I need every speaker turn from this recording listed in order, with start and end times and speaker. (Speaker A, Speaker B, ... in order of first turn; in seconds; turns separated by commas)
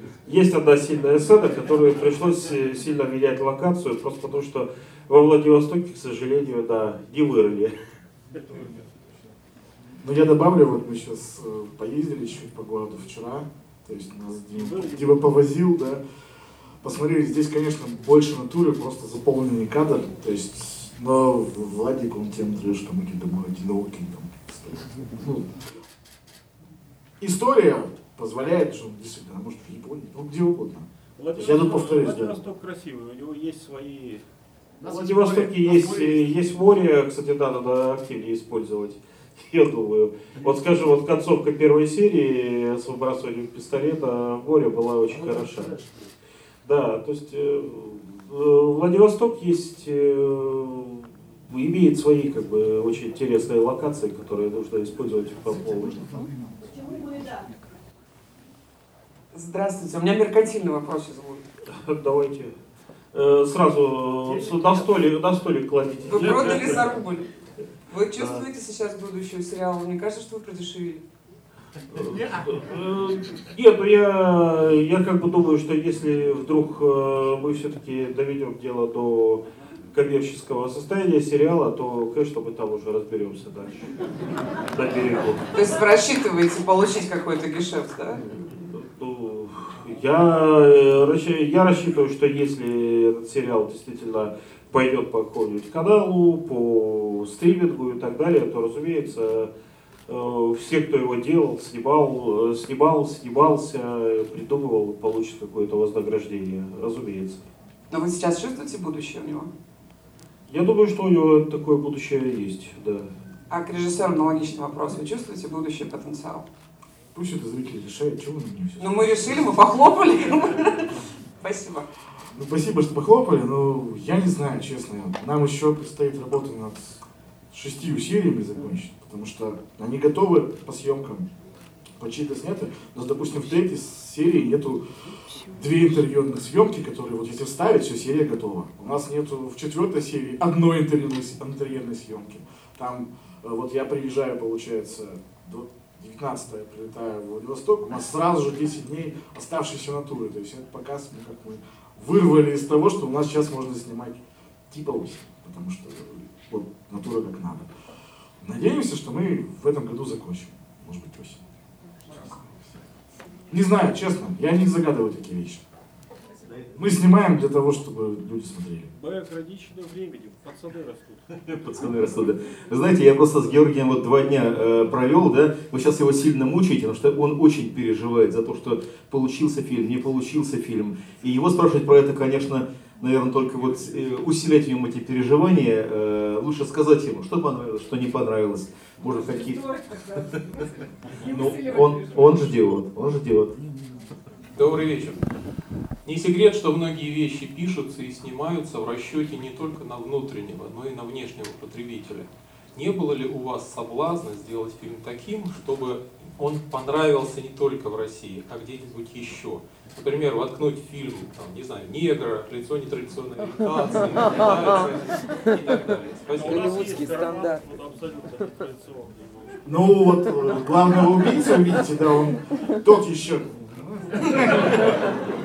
Speaker A: 0.2-7.7, Speaker B: 8.3-8.8, Speaker C: 10.0-16.0, Speaker B: 14.5-15.2, Speaker C: 16.8-25.5, Speaker C: 27.2-32.4, Speaker B: 31.2-34.2, Speaker B: 34.8-36.1, Speaker A: 34.9-45.8, Speaker A: 46.6-56.0, Speaker C: 55.8-57.5, Speaker D: 59.3-61.4, Speaker A: 61.7-62.5, Speaker A: 63.1-66.9, Speaker D: 66.1-67.2, Speaker D: 67.9-71.0, Speaker A: 71.9-79.4, Speaker A: 79.9-83.9, Speaker A: 84.6-85.4, Speaker D: 85.5-88.2, Speaker A: 88.2-99.5, Speaker A: 100.1-107.5, Speaker D: 107.9-109.5, Speaker A: 110.5-113.1, Speaker D: 113.5-116.4, Speaker C: 117.1-119.6, Speaker D: 118.8-120.8, Speaker D: 121.4-121.9, Speaker C: 122.3-131.3, Speaker C: 132.0-134.8, Speaker C: 135.5-157.7, Speaker C: 158.4-161.4, Speaker C: 162.1-162.6, Speaker C: 163.5-165.6, Speaker C: 166.7-168.9, Speaker B: 168.9-171.2, Speaker E: 171.5-189.8, Speaker E: 191.2-193.5, Speaker F: 194.5-195.2, Speaker F: 196.0-216.9, Speaker B: 216.3-219.9, Speaker C: 219.6-225.1